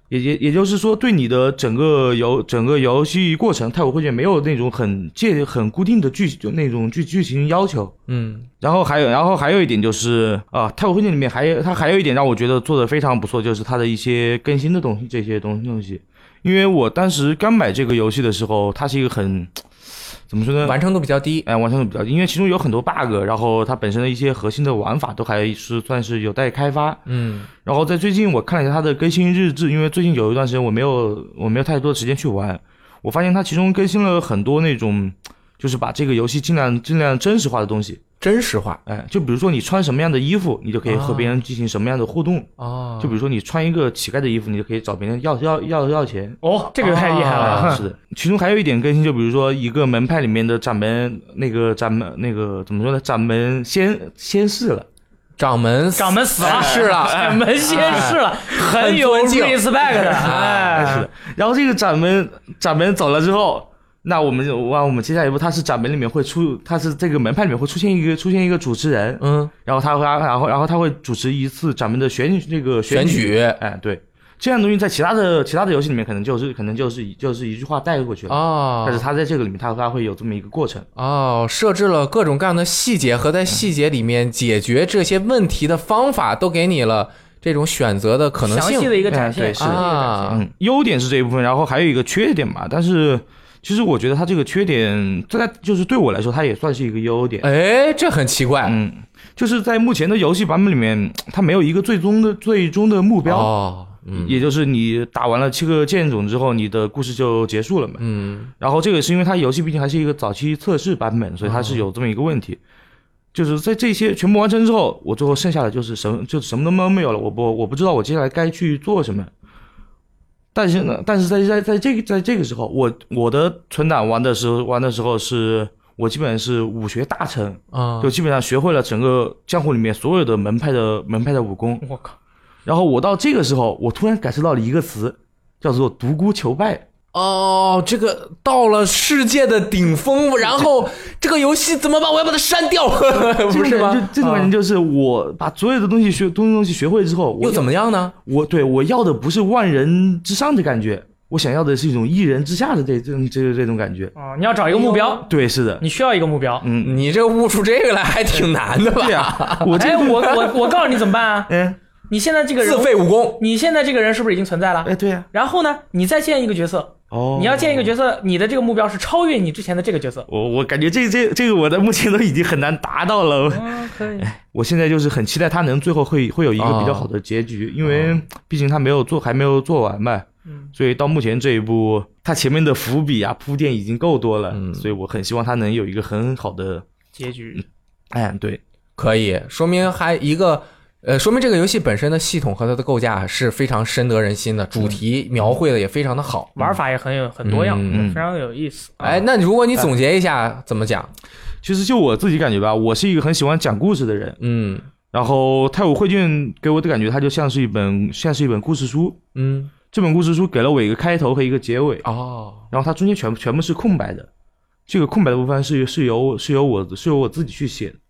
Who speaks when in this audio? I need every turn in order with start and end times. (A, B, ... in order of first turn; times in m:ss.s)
0:00.1-0:08.0 A
0:08.1-0:08.5 B
0:08.6-0:20.8 A
0:20.6-0:21.5 B
0:21.4-0:27.0 A
0:27.1-0:27.5 B
0:27.6-0:38.0 A
0:38.2-0:38.8 B
0:38.9-0:42.5 A
0:40.8-0:41.4 B
0:42.6-0:43.2 B
0:43.0-0:54.9 A
0:46.4-0:47.8 C
0:46.9-0:47.8 B
0:55.4-1:01.0 B
0:56.0-1:01.1 C
0:56.4-0:57.1 A
0:57.7-0:58.2 A
0:59.9-1:20.9 A
1:09.2-1:09.5 B
1:12.9-1:13.6 B
1:18.3-1:19.1 B
1:21.0-1:29.0 B
1:28.4-1:30.4 C
1:29.1-1:37.5 A
1:29.6-1:30.4 B
1:37.4-1:38.8 B
1:38.6-1:43.5 A
1:43.2-1:44.4 B
1:44.1-1:48.0 A
1:48.0-1:48.5 B
1:48.6-1:52.6 A
1:51.4-1:51.8 B
1:53.3-1:59.3 A
2:00.5-2:11.8 A
2:07.7-2:08.2 B
2:11.8-2:12.2 C
2:12.7-2:16.8 A
2:17.1-2:24.4 B
2:23.3-2:27.7 A
2:27.4-2:28.2 B
2:28.2-2:34.1 A
2:34.2-2:36.6 C
2:34.7-2:35.8 A
2:36.6-2:37.0 A
2:36.8-2:39.8 B
2:39.0-2:40.6 A
2:39.8-2:41.5 C
2:41.5-2:41.8 A
2:42.1-2:50.3 C
2:42.6-2:43.4 B
2:44.8-2:45.3 A
2:47.1-2:47.9 A
2:50.3-3:06.8 A
2:53.5-2:54.3 C
2:56.6-2:57.1 B
2:57.9-2:58.2 B
3:00.5-3:00.7 C
3:04.5-3:04.9 B
3:07.2-3:07.6 C
3:08.1-3:08.6 A
3:09.0-3:16.6 B
3:16.6-3:19.2 C
3:17.4-3:18.0 B
3:17.9-3:18.2 A
3:19.0-3:21.1 B
3:21.6-3:24.4 A
3:24.4-3:24.9 B
3:25.1-3:29.2 A
3:29.4-3:29.7 B
3:29.9-3:32.0 A
3:32.0-3:32.7 B
3:32.7-3:34.3 A
3:34.9-3:38.0 A